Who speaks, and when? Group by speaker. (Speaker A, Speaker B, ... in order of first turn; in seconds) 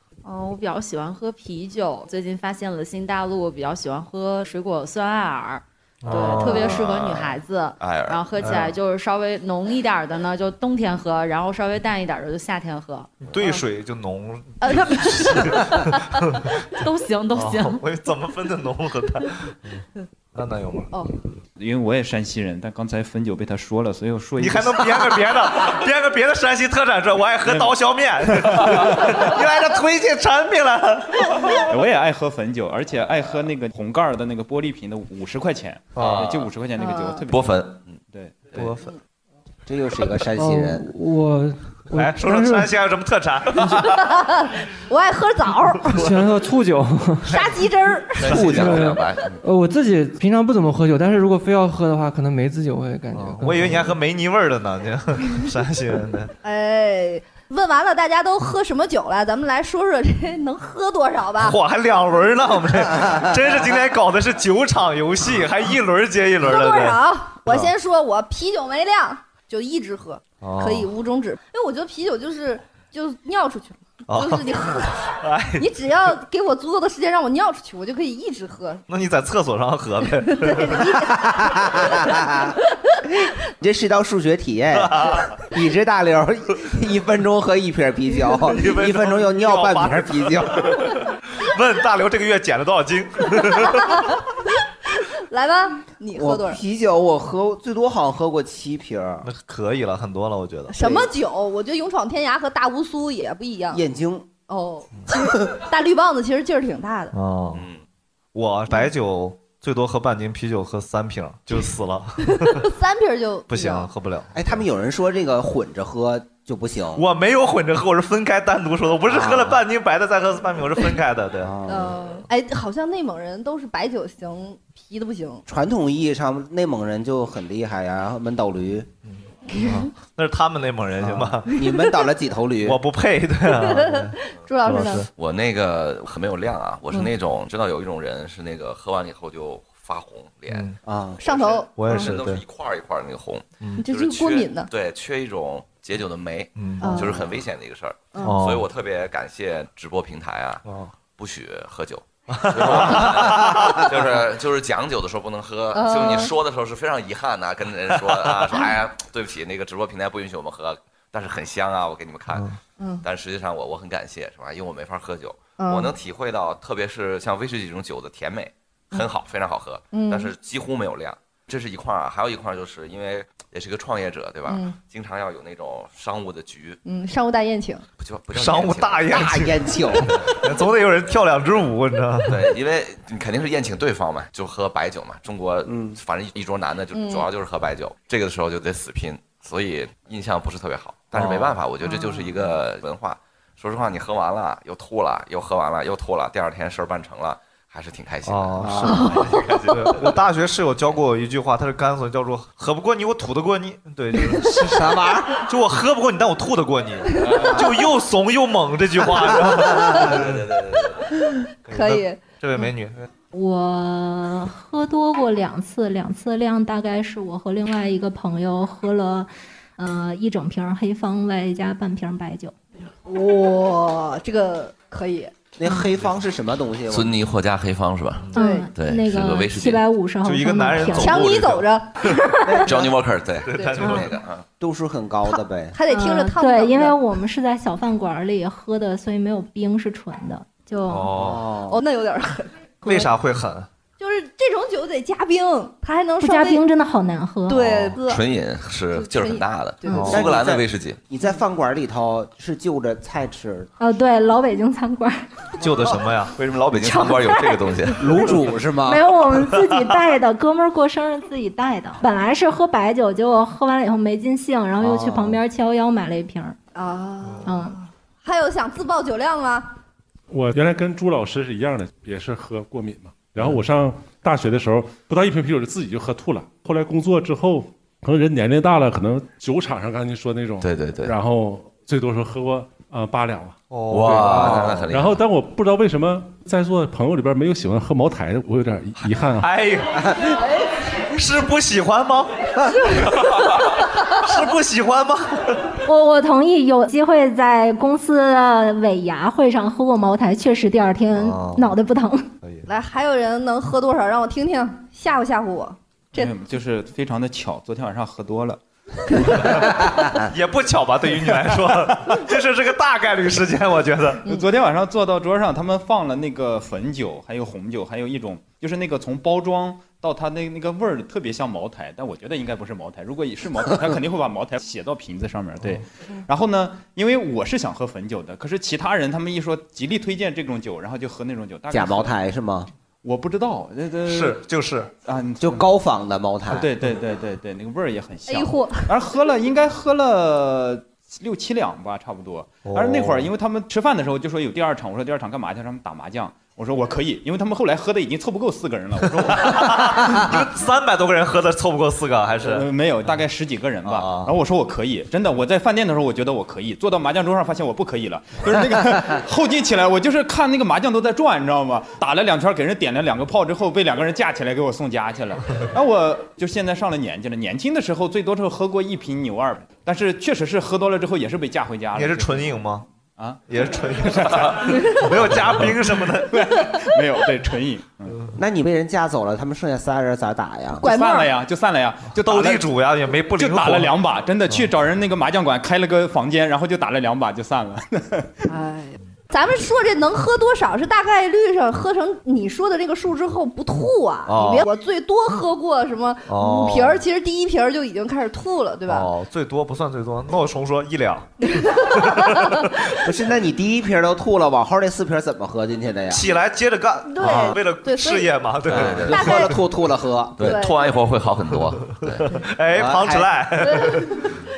Speaker A: 0.2-13.1, 14.6-15.1, 16.8-17.8
Speaker B: 6.0-7.0, 8.4-8.8, 13.2-16.4, 17.3-19.8, 20.3-21.1, 24.4-31.6, 36.0-36.5, 38.5-38.9, 41.9-44.1, 45.9-46.2, 48.2-48.8, 53.1-56.3, 61.4-67.7, 70.4-70.9, 74.1-75.7, 78.9-81.0, 84.8-85.4, 88.5-94.1, 99.2-100.8, 107.1-107.7, 108.3-112.7, 113.5-114.3, 117.0-121.5, 129.1-131.7, 132.6-135.1, 140.5-140.8, 141.7-142.4, 143.6-143.8, 146.6-147.0, 148.2-148.7, 150.7-151.0, 152.3-154.0, 158.0-158.4, 178.3-182.5, 198.2-210.5, 211.7-213.1, 230.2-231.7, 233.4-234.1, 240.9-241.5, 242.8-243.7, 249.9-250.3, 255.6-256.4, 259.5-259.8, 283.7-284.7, 289.4-290.2, 291.1-292.3, 294.1-295.7, 301.1-301.7, 302.4-302.7, 310.2-314.2, 334.1-334.9, 342.6-343.3, 349.2-352.7, 353.8-354.3, 371.9-372.9, 373.5-376.4, 382.2-384.0, 394.3-394.7, 396.3-397.0, 398.9-403.1, 406.1-409.5, 411.8-414.3
Speaker C: 6.4-8.2, 37.3-38.0, 48.2-49.4, 107.5-107.8, 135.1-140.7, 141.9-162.5, 163.0-176.8, 178.0-179.2, 182.3-199.7, 210.0-211.0, 226.9-229.8, 232.7-234.4, 247.9-251.0, 256.4-258.1, 280.6-281.1, 283.9-285.2, 408.7-409.2, 410.4-412.3
Speaker D: 21.6-25.3, 27.4-27.7, 28.3-29.1, 31.7-37.4, 38.1-38.7, 306.1-308.6, 314.2-332.2, 333.0-334.4, 335.0-335.6, 336.5-350.0, 352.4-372.6, 373.2-373.4, 374.1-378.2, 380.8-382.7, 383.4-388.3
Speaker E: 36.8-37.2, 44.0-45.9, 47.3-48.4, 56.4-61.6, 66.4-75.0, 75.6-78.8, 80.2-82.0, 93.6-94.2, 94.9-96.6, 100.7-103.8, 104.5-107.1, 112.5-113.9, 121.7-125.4, 129.5-129.8, 133.5-135.1, 141.2-142.1, 143.8-144.7, 146.8-147.3, 155.7-156.3, 162.8-163.0, 165.6-165.9, 169.9-170.3, 174.5-174.8, 176.8-177.8, 186.9-187.3, 191.9-192.2, 198.9-199.3, 211.7-212.3, 223.1-225.3, 228.3-228.7, 231.0-232.7, 233.6-234.0, 235.7-237.0, 241.7-243.0, 244.0-246.6, 247.5-248.2, 248.9-250.2, 266.8-269.7, 302.7-306.3, 338.3-338.9, 380.8-381.3, 388.5-399.1, 401.4-402.7, 407.1-408.3, 409.1-409.6, 410.4-410.8
Speaker F: 39.7-40.9, 81.0-82.5, 83.6-90.7, 96.2-99.3, 100.8-101.1, 103.7-104.3, 114.3-117.0, 119.1-119.6, 121.4-122.0, 125.5-128.9, 131.0-132.8, 140.8-141.2, 179.1-180.1, 185.7-186.0, 198.6-198.9, 204.6-205.3, 225.6-227.2, 232.4-232.9, 234.6-235.8, 241.2-241.8, 250.1-253.7, 258.0-259.1, 264.8-265.4, 331.7-332.7, 335.4-336.7, 378.4-380.8, 403.0-406.3, 408.7-410.5, 412.8-413.3
Speaker G: 40.4-42.7, 45.9-47.4, 48.3-53.9
Speaker H: 213.3-222.5, 228.3-231.2, 235.9-241.1, 246.2-247.7, 253.8-255.2, 256.8-266.6, 267.4-267.8, 295.8-302.3
Speaker I: 270.3-289.5